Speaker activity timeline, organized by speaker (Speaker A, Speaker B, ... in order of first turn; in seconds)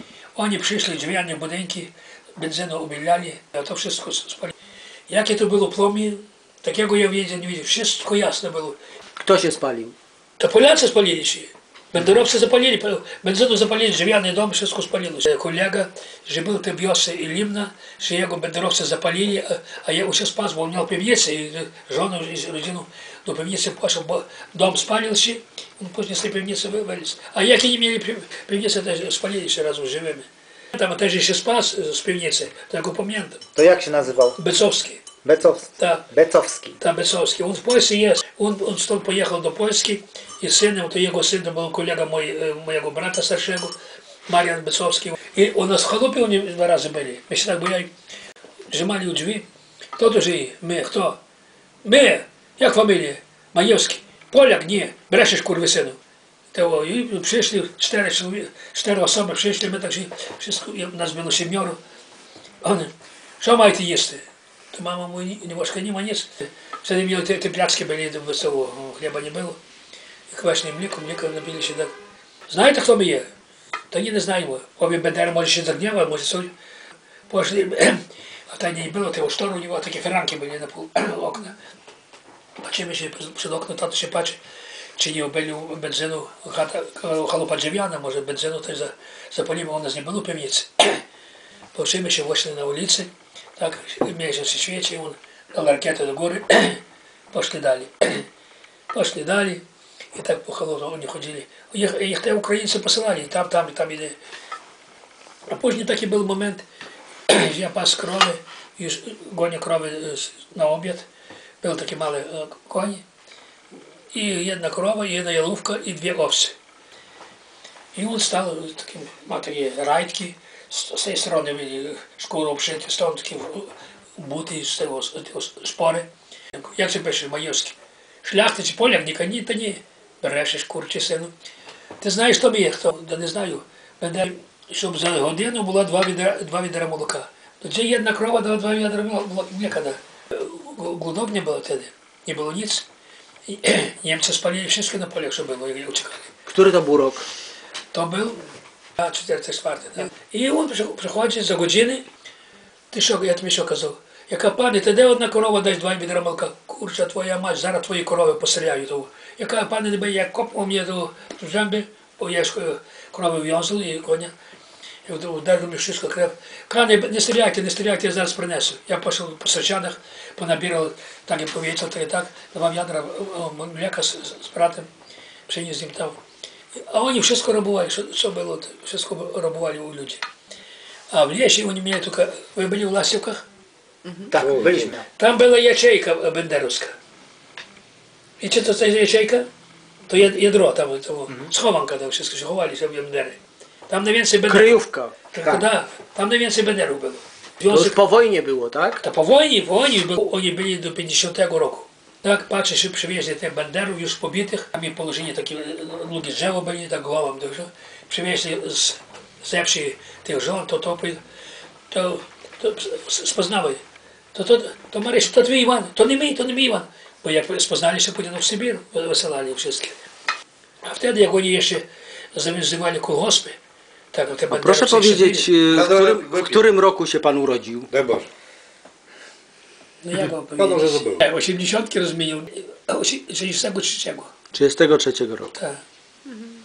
Speaker A: 0.3-4.5, 5.1-8.8, 10.4-33.4, 34.4-35.0, 35.8-36.0, 36.8-43.7, 44.3-47.9, 48.7-49.5, 50.0-51.2, 51.8-56.0, 56.5-61.8, 62.6-69.6, 70.3-71.9, 72.5-73.3, 73.9-76.5, 77.3-81.5, 82.6-84.4, 85.0-91.0, 91.7-98.3, 98.9-99.6, 100.1-104.2, 105.5-106.6, 107.3-111.1, 111.6-113.0, 114.1-116.5, 117.9-131.3, 132.0-142.8, 143.5-146.3, 147.9-148.4, 149.0-152.0, 152.9-164.3, 165.1-174.9, 175.5-176.2, 176.7-180.2, 181.1-183.4, 184.4-186.9, 188.4-189.5, 190.1-194.8, 195.3-198.0, 199.0-211.2, 211.9-213.8, 214.3-219.9, 220.8-223.6, 224.1-225.5, 230.0-234.3, 235.5-235.8
Speaker B: 9.2-9.9, 146.5-147.2, 194.5-195.1, 197.7-199.0, 224.5-227.9, 234.5-235.5
Speaker C: 33.5-34.4, 35.2-36.8, 184.3-185.0
Speaker D: 184.1-184.8, 225.7-226.6, 227.9-228.3, 230.6-231.2